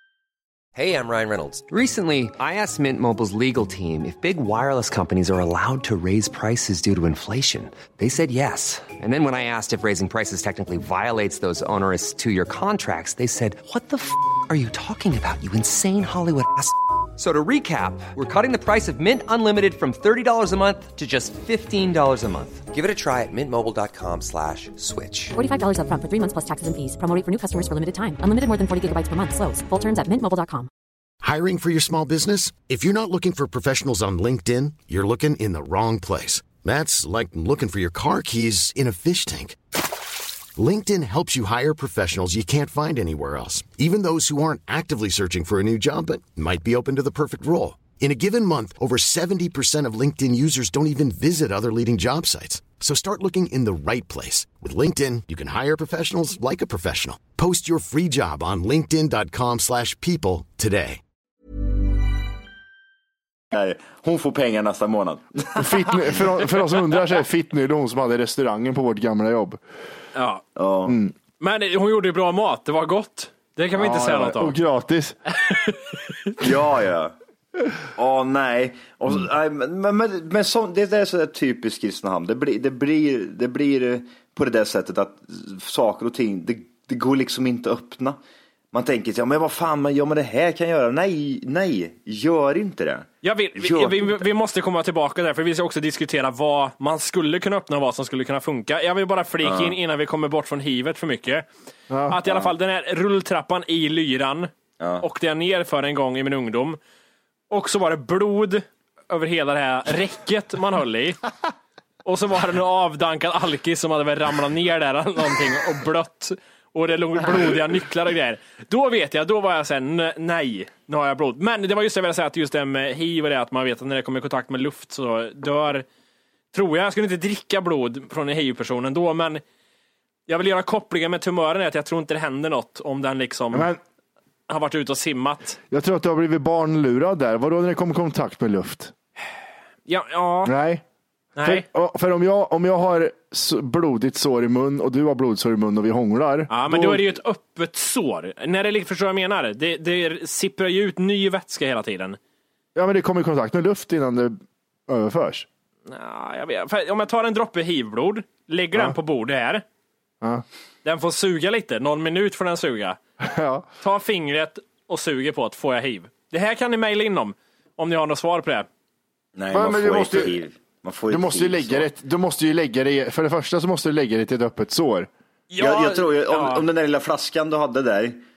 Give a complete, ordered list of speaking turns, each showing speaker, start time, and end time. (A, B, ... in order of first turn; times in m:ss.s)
0:00.8-0:25.4 A
0:25.4-0:30.7 B
0:31.2-0:39.6 C
0:40.6-1:01.0 C
1:03.5-1:06.2 D
1:05.6-1:09.6 E
1:10.2-1:10.4 F
1:10.6-1:11.0 D
1:10.9-1:11.1 E
1:11.4-1:14.6 F
1:13.8-1:15.2 E
1:15.4-1:16.4 F
1:16.4-1:17.1 D
1:18.0-1:28.2 D
1:28.7-1:34.2 D
1:33.2-1:41.5 F
1:39.4-1:39.8 D
1:41.9-1:42.2 E
1:42.1-1:46.8 F
1:47.5-1:51.2 F
1:52.0-2:05.9 F
2:06.5-2:09.4 F
2:10.3-2:13.7 F
2:13.5-2:13.8 E
2:14.5-2:15.6 F
2:15.7-2:18.9 E
2:19.9-2:20.6 F
2:20.4-2:20.8 E
2:21.4-2:21.7 F
2:21.4-2:27.1 E
2:26.5-2:32.2 F
2:32.8-2:35.5 E
2:35.9-2:39.6 F
2:40.8-2:43.0 F
2:43.2-2:43.7 E
2:43.8-2:48.7 F
2:49.4-2:51.9 D
2:49.5-2:50.3 E
2:51.1-2:55.1 E
2:55.5-2:56.6 F
2:55.6-2:58.2 D